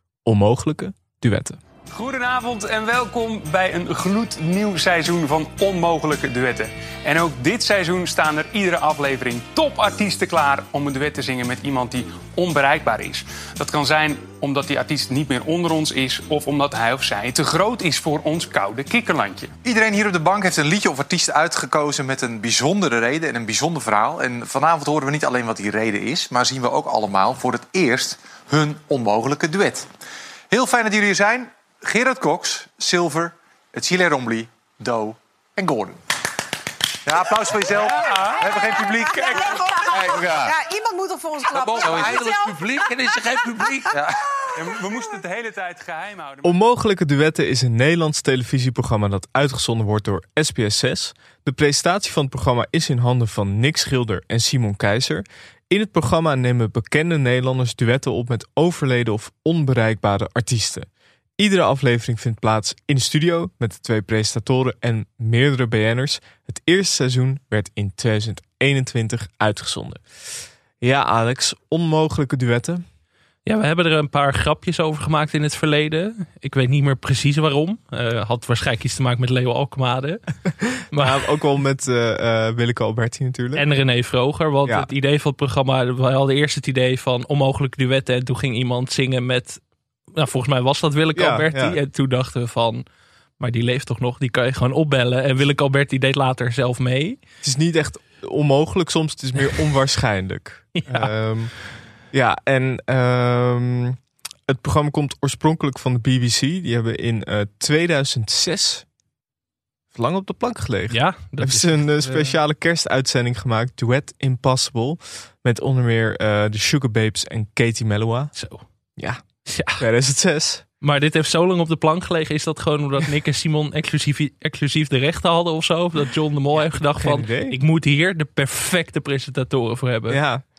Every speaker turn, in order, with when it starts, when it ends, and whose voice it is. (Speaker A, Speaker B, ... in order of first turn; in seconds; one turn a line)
Speaker A: 0.2-1.6
Speaker B: 1.9-19.6
Speaker C: 19.6-29.9
Speaker C: 30.5-36.0
Speaker C: 37.0-40.5
Speaker B: 37.8-38.4
Speaker D: 38.5-43.4
Speaker B: 39.1-39.6
Speaker C: 41.5-44.2
Speaker B: 44.5-46.6
Speaker A: 46.4-70.0
Speaker A: 70.8-72.8
Speaker E: 73.5-80.2
Speaker A: 80.6-83.7
Speaker E: 80.9-81.3
Speaker E: 83.5-89.6
Speaker E: 90.2-92.8
Speaker A: 91.2-91.8
Speaker E: 93.4-97.2
Speaker A: 97.4-101.5
Speaker E: 100.8-101.1
Speaker A: 102.1-108.8
Speaker A: 109.9-118.3
Speaker E: 110.9-112.4
Speaker E: 118.3-118.6
Speaker A: 119.0-120.7
Speaker E: 119.5-119.8
Speaker E: 120.8-130.2
Speaker A: 126.7-127.6
Speaker A: 130.1-130.4